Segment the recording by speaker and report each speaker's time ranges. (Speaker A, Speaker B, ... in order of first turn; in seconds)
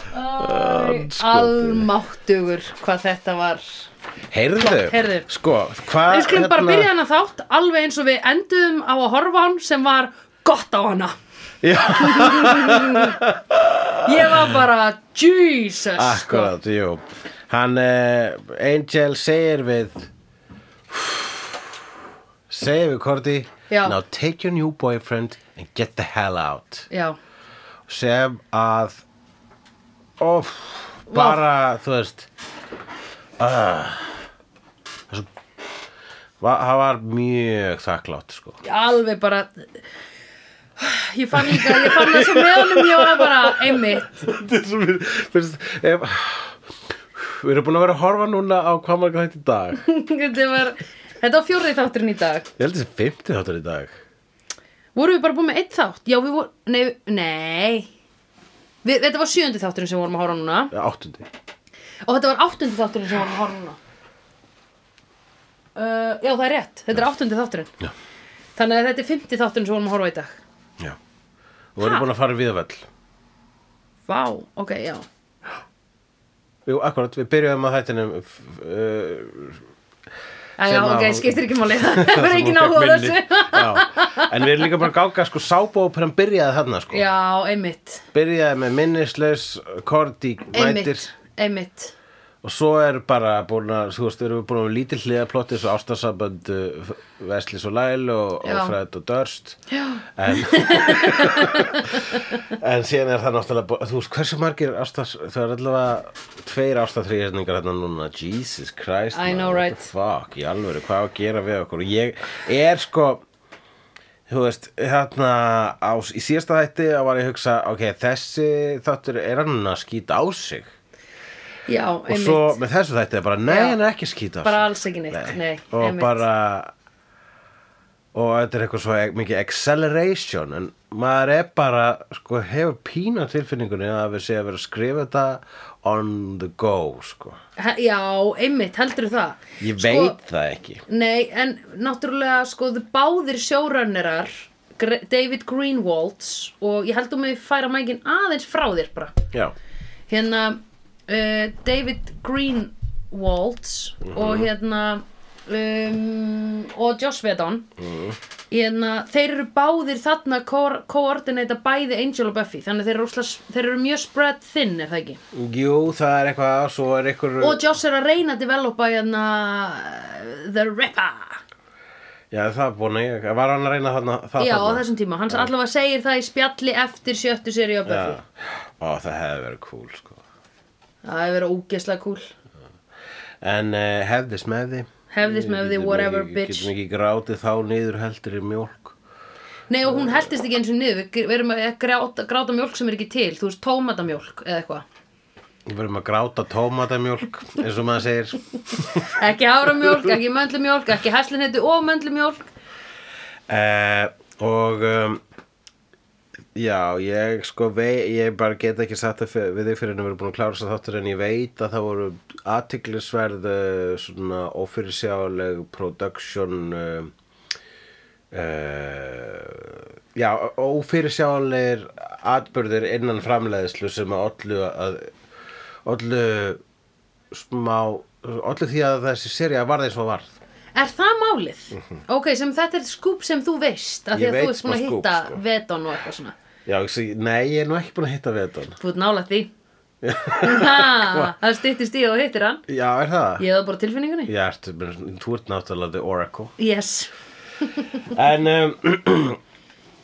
Speaker A: 0.1-3.9, 4.6-5.3, 6.1-11.1, 11.8-13.2, 14.0-16.5, 23.7-24.0, 26.9-27.2, 31.1-31.4, 38.6-39.8, 40.8-44.3, 49.8-52.5, 54.9-57.9, 58.8-60.7, 62.0-63.8, 65.8-67.7, 68.6-70.4, 74.1-75.1, 80.6-84.3, 86.9-88.0, 90.5-91.9, 98.4-98.8, 99.7-102.4, 109.1-109.9, 121.7-122.6, 123.5-123.8, 124.4-126.2, 137.6-140.2, 140.9-149.2, 150.1-157.7, 158.5-165.2, 167.4-171.4, 174.4-178.2, 181.0-182.3, 185.1-186.7, 189.7-194.8, 198.8-202.5, 230.8-236.3, 238.8-239.5, 240.4-242.6, 243.4-244.3, 246.6-247.1, 247.6-248.0
Speaker B: 0.4-1.9, 4.3-6.9, 11.6-14.6, 15.9-20.1, 20.9-21.7, 22.5-26.9, 27.9-29.0, 30.2-32.3, 33.4-34.2, 36.4-38.6, 41.3-46.6, 47.1-49.8, 52.6-53.9, 60.7-61.3, 71.8-72.9, 76.7-79.6, 80.6-87.0, 88.1-91.0, 92.4-99.6, 100.2-113.2, 114.3-120.7, 122.1-126.7, 128.1-137.4, 139.6-140.8, 154.1-154.5, 157.8-158.2, 165.3-167.7, 172.3-175.5, 177.8-180.2, 183.4-189.0, 189.9-190.3, 195.7-199.2, 199.8-200.1, 203.5-205.2, 206.5-217.1, 218.3-225.1, 225.8-226.6, 227.3-230.4, 234.1-235.4, 236.7-238.8, 240.0-241.3, 242.7-243.4, 244.3-246.5, 248.1-249.4